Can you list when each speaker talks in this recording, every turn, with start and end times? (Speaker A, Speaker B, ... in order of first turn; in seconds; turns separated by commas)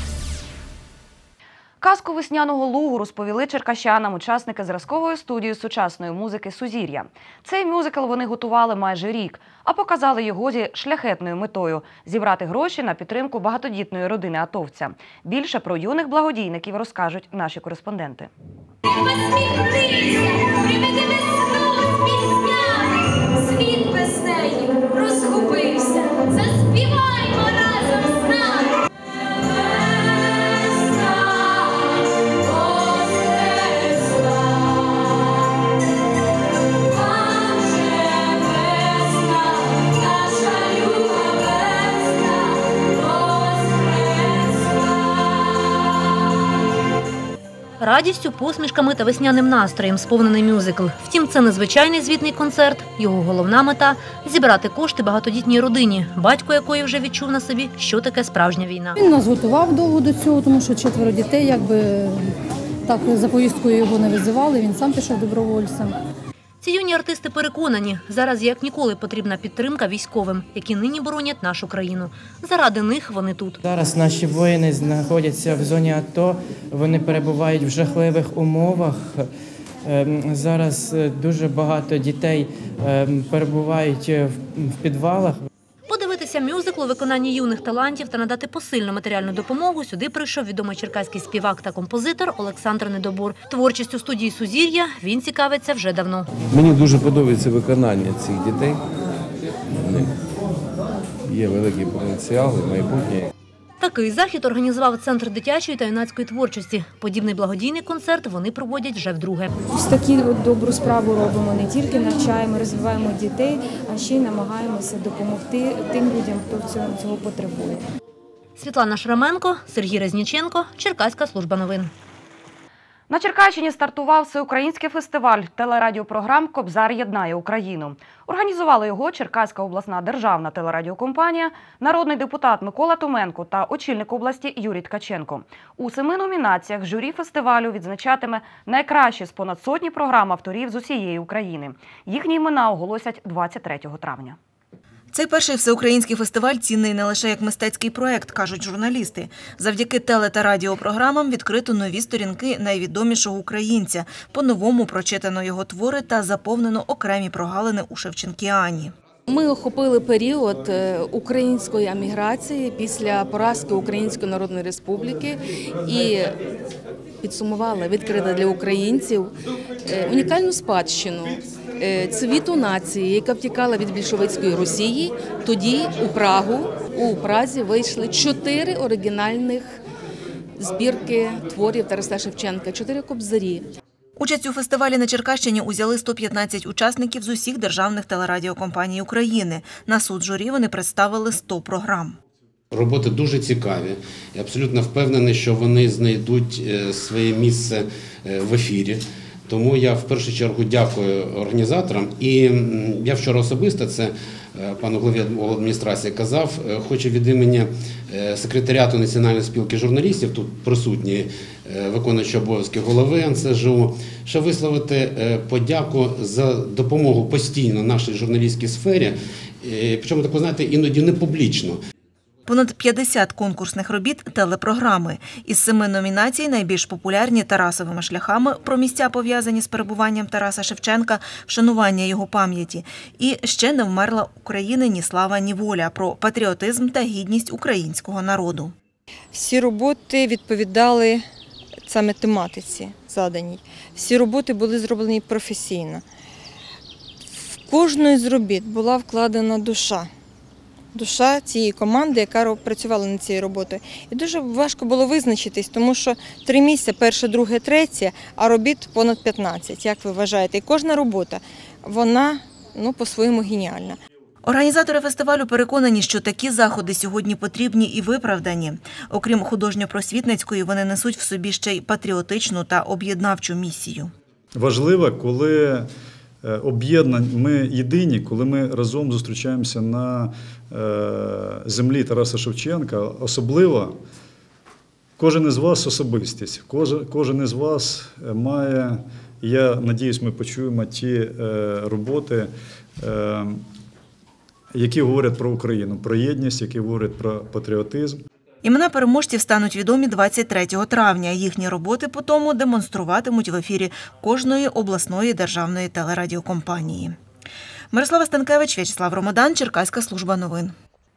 Speaker A: 1.8-18.3, Speaker B: 18.8-35.2, Speaker B: 36.9-44.9, Speaker C: 47.8-59.0, Speaker D: 59.0-62.3, Speaker D: 62.9-65.9, Speaker C: 66.6-73.6, Speaker E: 73.6-79.3, Speaker E: 79.8-85.4, Speaker C: 85.9-96.3, Speaker F: 96.5-98.8, Speaker F: 99.8-100.1, Speaker F: 101.3-103.3, Speaker C: 103.8-109.5, Speaker G: 109.7-117.8, Speaker C: 118.6-121.9, Speaker A: 123.1-144.4, Speaker H: 145.1-158.9, Speaker I: 159.3-166.3, Speaker I: 167.2-179.8, Speaker I: 180.6-183.7, Speaker H: 184.2-192.2, Speaker J: 192.7-221.8, Speaker H: 222.5-238.7, Speaker K: 239.3-241.2, Speaker K: 241.8-246.0, Speaker K: 247.3-250.1, Speaker K: 250.9-264.0, Speaker H: 264.4-274.1, Speaker L: 274.5-275.9, Speaker L: 276.4-284.0, Speaker L: 285.2-293.6, Speaker L: 294.7-298.2, Speaker H: 298.6-307.2, Speaker H: 307.9-310.7